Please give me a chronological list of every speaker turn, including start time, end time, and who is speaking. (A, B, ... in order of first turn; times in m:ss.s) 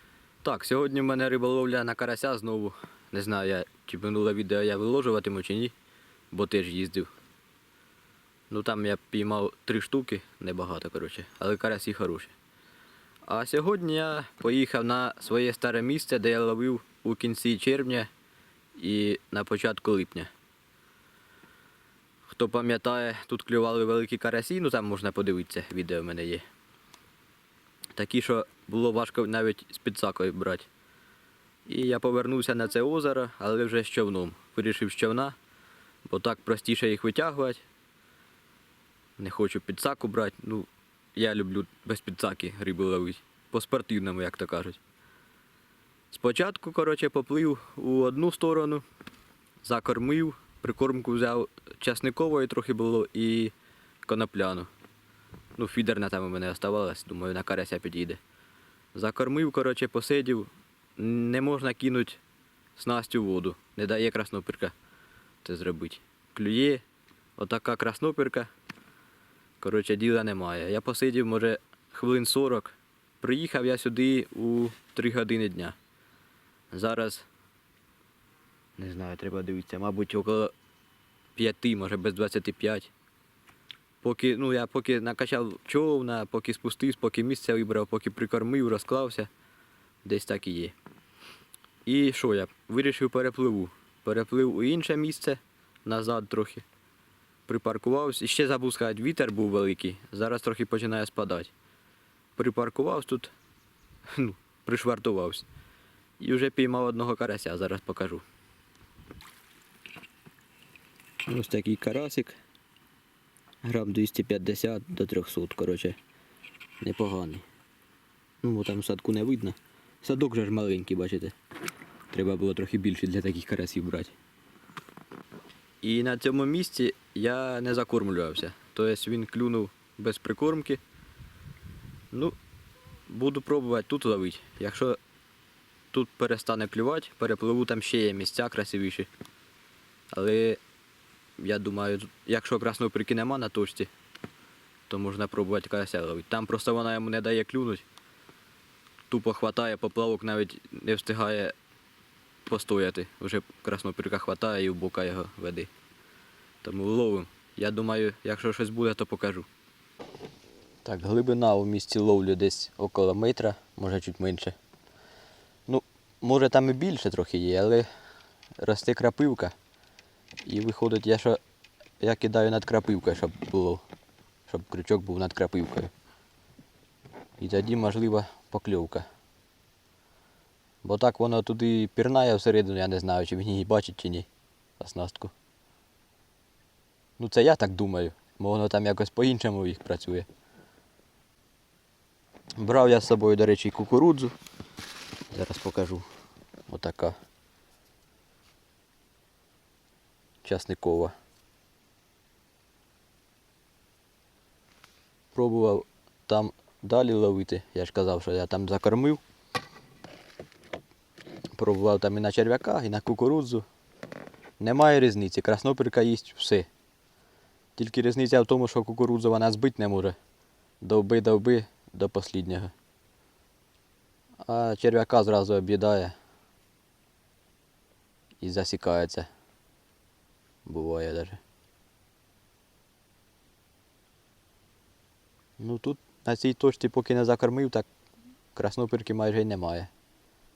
0:00.4-0:05.7 A
0:06.3-0:07.1 A
0:08.5-0:12.3 A
0:13.3-0:18.1 A
0:18.8-0:20.3 A
0:22.3-0:26.4 A
0:28.0-0:30.7 A
0:31.7-0:35.4 A
0:36.0-0:37.6 A
0:39.2-0:44.8 A
0:46.1-0:48.8 A
0:49.6-0:53.5 A
0:54.1-0:54.7 A
0:55.6-0:58.2 A
0:58.9-1:02.2 A
1:02.8-1:04.7 A
1:05.4-1:06.8 A
1:07.4-1:08.5 A
1:09.6-1:15.8 A
1:16.7-1:17.3 A
1:18.8-1:20.5 A
1:21.4-1:22.9 A
1:24.0-1:29.3 A
1:30.0-1:30.8 A
1:31.8-1:36.6 A
1:37.5-1:41.5 A
1:42.4-1:43.3 A
1:44.1-1:45.5 A
1:46.2-1:48.2 A
1:51.2-1:52.4 A
1:53.6-1:56.0 A
1:56.8-1:57.4 A
1:58.4-2:01.4 A
2:02.1-2:04.1 A
2:05.8-2:10.8 A
2:13.1-2:15.0 A
2:15.9-2:19.1 A
2:20.1-2:20.6 A
2:21.4-2:23.9 A
2:24.9-2:27.8 A
2:29.1-2:31.5 A
2:32.5-2:35.7 A
2:36.6-2:39.5 A
2:40.8-2:44.6 A
2:45.7-2:47.9 A
2:48.6-2:49.5 A
2:50.4-2:51.4 A
2:52.0-2:53.8 A
2:54.5-2:55.9 A
2:57.4-2:59.1 A
3:00.8-3:04.3 A
3:04.8-3:05.3 A
3:07.2-3:10.3 A
3:12.6-3:14.3 A
3:15.3-3:16.1 A
3:16.7-3:17.2 A
3:20.4-3:21.2 A
3:25.3-3:29.2 A
3:31.6-3:33.7 A
3:34.6-3:36.7 A
3:37.8-3:40.2 A
3:40.8-3:42.7 A
3:44.4-3:46.2 A
3:48.4-3:49.3 A
3:50.6-3:51.4 A
3:55.6-3:57.9 A
3:58.6-3:59.9 A